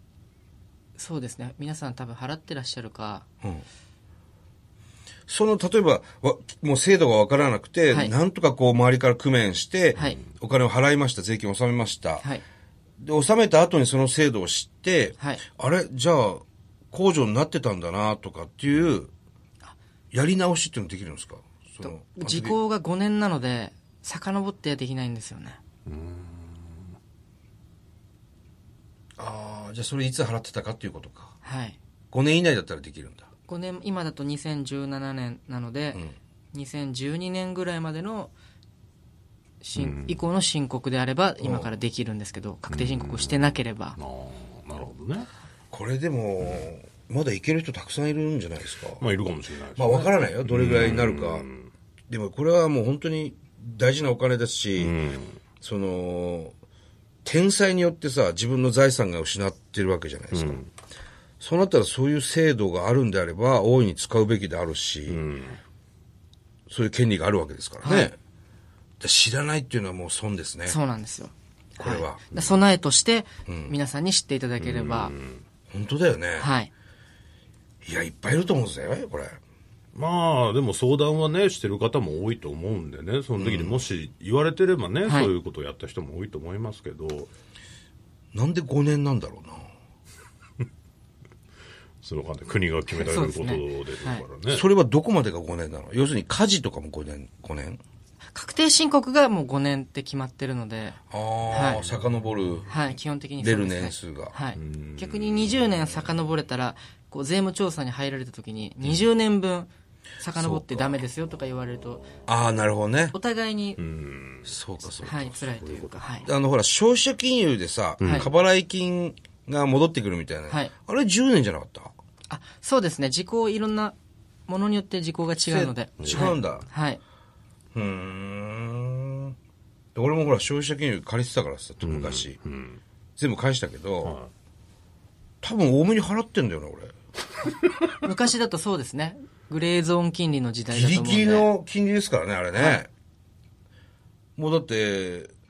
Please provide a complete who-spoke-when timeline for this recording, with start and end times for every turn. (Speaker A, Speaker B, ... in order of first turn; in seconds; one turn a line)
Speaker A: 1.0-3.2
Speaker B: 5.3-12.3
Speaker A: 7.9-8.1
Speaker A: 10.0-10.3
Speaker B: 13.0-19.1
Speaker A: 15.2-15.5
Speaker B: 20.1-22.6
Speaker A: 21.8-25.6
Speaker C: 25.9-26.8
Speaker B: 29.2-31.3
Speaker A: 31.4-31.8
Speaker B: 32.1-33.3
Speaker A: 33.5-36.0
Speaker A: 36.5-38.3
Speaker A: 39.6-44.0
Speaker C: 39.8-40.2
Speaker B: 41.4-41.7
Speaker C: 42.7-45.3
Speaker B: 45.7-49.0
Speaker C: 46.4-46.7
Speaker C: 49.0-51.7
Speaker B: 49.8-51.5
Speaker B: 52.1-55.0
Speaker C: 54.8-55.4
Speaker B: 55.6-56.5
Speaker B: 57.2-60.6
Speaker C: 60.3-60.7
Speaker B: 61.4-65.2
Speaker C: 65.1-65.6
Speaker B: 66.7-68.2
Speaker A: 67.8-68.1
Speaker B: 69.0-70.8
Speaker A: 70.7-75.1
Speaker B: 71.8-72.3
Speaker C: 72.3-72.6
Speaker B: 73.5-73.7
Speaker C: 74.6-75.4
Speaker B: 75.7-76.5
Speaker A: 76.4-76.7
Speaker B: 77.8-79.4
Speaker C: 80.0-87.3
Speaker B: 83.4-83.8
Speaker A: 85.0-85.3
Speaker B: 88.3-89.7
Speaker C: 92.0-94.6
Speaker A: 92.9-94.2
Speaker B: 94.5-97.8
Speaker A: 98.3-101.9
Speaker B: 101.1-102.7
Speaker C: 101.5-102.1
Speaker A: 102.7-109.7
Speaker B: 103.4-104.3
Speaker C: 104.5-105.9
Speaker B: 105.9-106.2
Speaker A: 110.2-112.2
Speaker B: 110.3-111.0
Speaker B: 112.3-113.1
Speaker A: 113.1-113.8
Speaker C: 113.8-114.5
Speaker B: 114.5-115.4
Speaker A: 115.0-116.3
Speaker C: 115.0-116.3
Speaker B: 116.2-121.9
Speaker C: 118.0-118.3
Speaker A: 120.5-120.7
Speaker A: 122.3-124.0
Speaker A: 124.5-127.0
Speaker B: 125.4-126.7
Speaker C: 126.0-126.3
Speaker B: 127.7-129.3
Speaker B: 129.9-132.4
Speaker C: 131.8-132.8
Speaker B: 133.2-134.2
Speaker C: 134.0-134.3
Speaker B: 135.4-136.9
Speaker A: 138.0-141.5
Speaker B: 140.7-142.9
Speaker A: 142.5-142.8
Speaker B: 144.4-145.3